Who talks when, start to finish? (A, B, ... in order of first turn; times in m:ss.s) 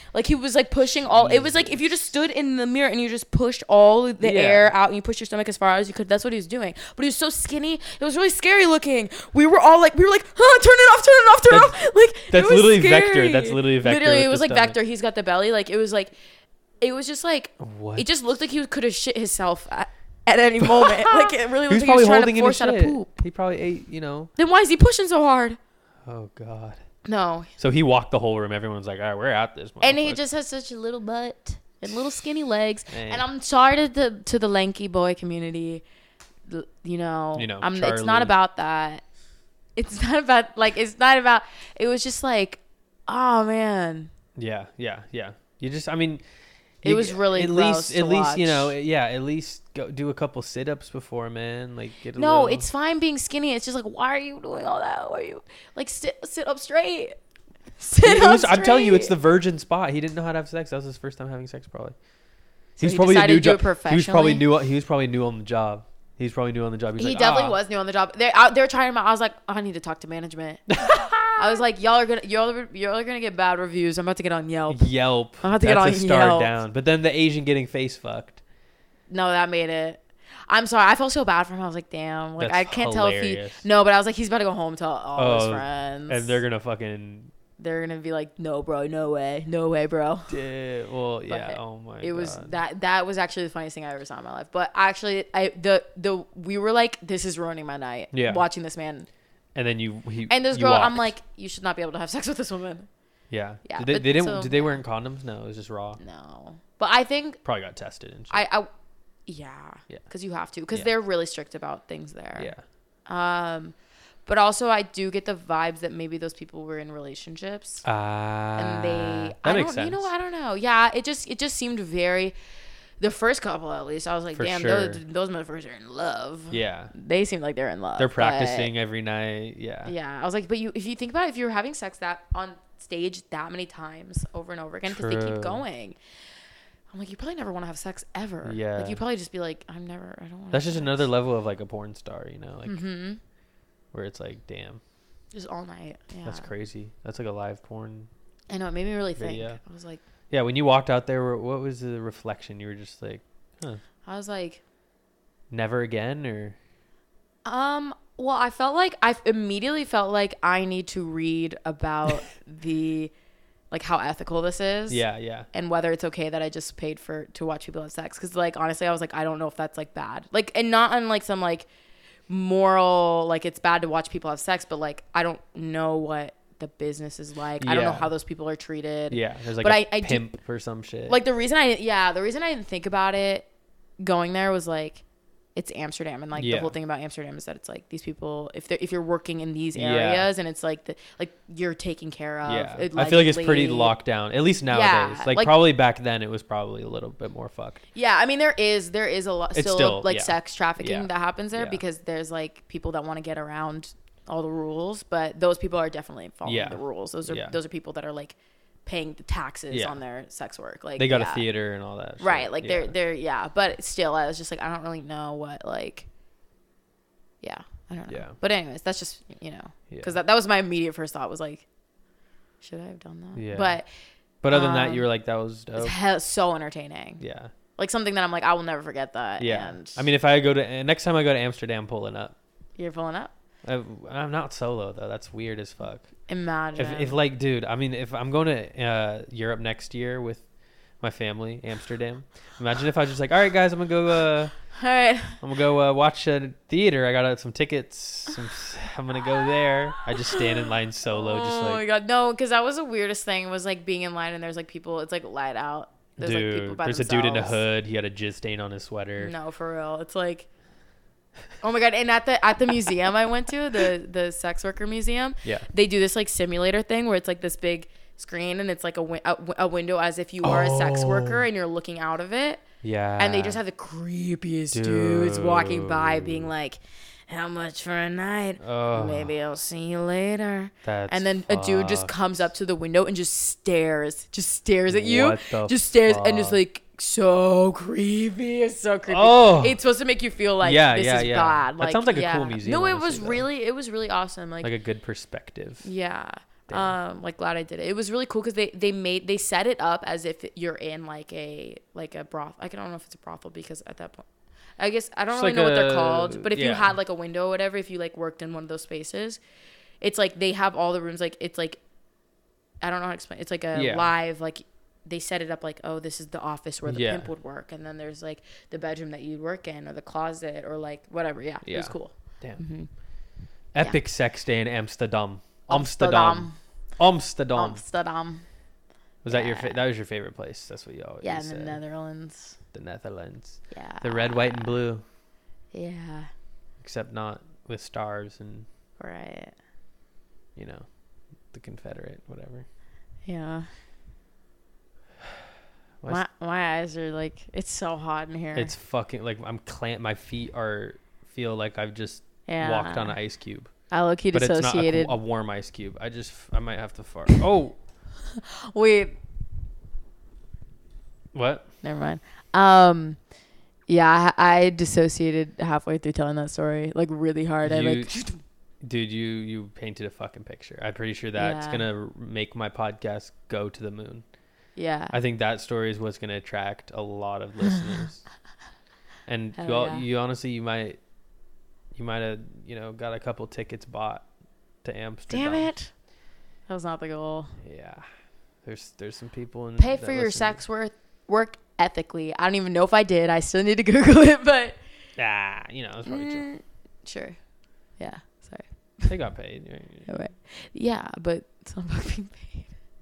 0:00.1-0:16.1 A
0:00.8-0:02.1 B
0:04.2-0:04.7 B
0:11.5-0:11.8 B
0:12.3-0:14.8 B
0:16.8-0:23.1 A
0:17.6-0:18.1 B
0:20.6-0:24.3 B
0:24.4-0:25.6 A
0:26.0-0:26.8 B
0:27.0-0:27.5 A
0:27.6-0:30.2 B
0:29.8-0:35.8 A
0:32.9-0:33.2 B
0:36.5-0:39.0 A
0:37.3-0:38.3 B
0:39.8-0:44.1 A
0:44.4-0:46.2 B
0:46.8-0:48.7 A
0:46.8-0:52.6 B
0:52.2-0:57.1 A
0:57.8-0:59.1 A
0:58.0-1:01.9 B
1:02.8-1:07.6 B
1:02.8-1:04.4 A
1:07.0-1:16.5 A
1:10.7-1:11.6 B
1:14.7-1:18.4 B
1:19.1-1:26.4 A
1:22.4-1:23.6 B
1:25.2-1:27.3 B
1:27.6-1:30.3 A
1:30.3-1:32.5 B
1:31.3-1:39.1 A
1:38.1-1:38.4 B
1:39.5-1:41.1 B
1:40.3-1:42.9 A
1:43.3-1:46.0 B
1:43.6-1:44.8 A
1:46.0-1:47.4 A
1:47.4-1:48.4 B
1:48.3-1:48.7 A
1:49.3-1:52.5 A
1:52.4-1:52.6 B
1:53.1-1:53.7 A
1:54.2-1:57.8 A
1:57.8-2:00.1 B
1:58.6-2:02.3 A
2:03.0-2:08.7 A
2:04.3-2:05.0 B
2:06.5-2:06.9 B
2:08.0-2:09.9 B
2:09.8-2:16.0 A
2:14.9-2:15.6 B
2:16.9-2:21.1 A
2:18.4-2:19.0 B
2:20.5-2:22.8 B
2:22.6-2:23.2 A
2:23.9-2:24.8 B
2:25.3-2:26.5 A
2:26.2-2:28.1 B
2:28.5-2:30.0 A
2:29.2-2:29.6 B
2:30.3-2:33.8 B
2:34.0-2:34.6 A
2:35.5-2:36.6 B
2:37.4-2:43.1 A
2:43.7-2:51.7 A
2:44.9-2:45.5 B
2:52.3-3:00.3 A
2:57.6-2:58.1 B
2:59.1-3:01.2 B
3:01.1-3:03.5 A
3:04.0-3:05.0 A
3:05.5-3:13.9 A
3:06.4-3:06.7 B
3:09.7-3:10.3 B
3:12.4-3:17.8 B
3:14.7-3:15.6 A
3:17.9-3:31.4 A
3:19.5-3:21.8 B
3:26.4-3:27.5 B
3:29.7-3:30.0 B
3:31.0-3:32.9 B
3:32.2-3:36.1 A
3:37.4-3:41.6 A
3:38.1-3:38.3 B
3:39.9-3:40.2 B
3:42.6-3:43.9 A
3:43.3-3:43.8 B
3:44.4-3:46.0 B
3:44.5-3:45.1 A
3:45.8-3:47.2 A
3:47.2-3:47.5 B
3:47.8-3:50.0 A
3:49.4-3:52.3 B
3:52.8-3:53.3 A
3:53.6-3:56.1 B
3:56.3-3:57.2 A
3:56.8-4:00.4 B
4:01.0-4:04.6 B
4:04.8-4:05.4 A
4:05.4-4:11.8 B
4:10.0-4:10.4 A
4:11.0-4:17.6 A
4:16.2-4:19.3 B
4:19.2-4:20.5 A
4:21.6-4:32.6 A
4:30.4-4:31.4 B
4:32.8-4:33.6 B
4:33.2-4:54.7 A
4:34.7-4:36.5 B
4:38.6-4:39.3 B
4:40.8-4:42.1 B
4:44.9-4:46.6 B
4:49.1-4:49.8 B
4:50.6-4:53.4 B
4:54.6-4:55.8 B
4:55.8-5:04.2 A
4:56.7-4:56.9 B
5:04.8-5:09.4 A
5:05.3-5:06.9 B
5:10.0-5:11.8 A
5:12.8-5:22.9 A
5:13.7-5:14.1 B
5:16.8-5:17.3 B
5:21.6-5:22.6 B
5:23.7-5:27.8 B
5:25.7-5:26.6 A
5:27.5-5:28.4 A
5:29.2-5:31.8 B
5:29.3-5:29.7 A
5:31.2-5:32.6 A
5:32.7-5:35.0 B
5:33.7-5:34.8 A
5:35.7-5:36.3 A
5:36.8-5:38.6 B
5:39.0-5:39.5 A
5:40.6-5:40.9 B
5:41.5-5:42.6 B
5:43.2-5:43.7 A
5:46.1-5:48.7 A
5:48.5-5:53.7 B
5:52.5-5:53.2 A
5:53.9-5:55.1 A
5:54.3-5:57.8 B
5:58.4-5:59.1 A
6:01.3-6:01.6 B
6:01.8-6:03.2 A
6:03.9-6:08.4 A
6:07.6-6:08.2 B
6:08.8-6:14.2 B
6:11.4-6:11.8 A
6:14.8-6:15.1 A
6:15.1-6:18.3 B
6:19.2-6:21.0 B
6:19.6-6:20.0 A
6:21.9-6:24.2 B
6:24.8-6:25.7 B
6:25.3-6:25.9 A
6:26.7-6:27.5 A
6:27.6-6:28.0 B
6:28.6-6:30.6 B
6:29.8-6:34.8 A
6:35.2-6:36.5 B
6:36.0-6:37.4 A
6:38.0-6:39.1 A
6:39.1-6:40.1 B
6:40.1-6:42.7 A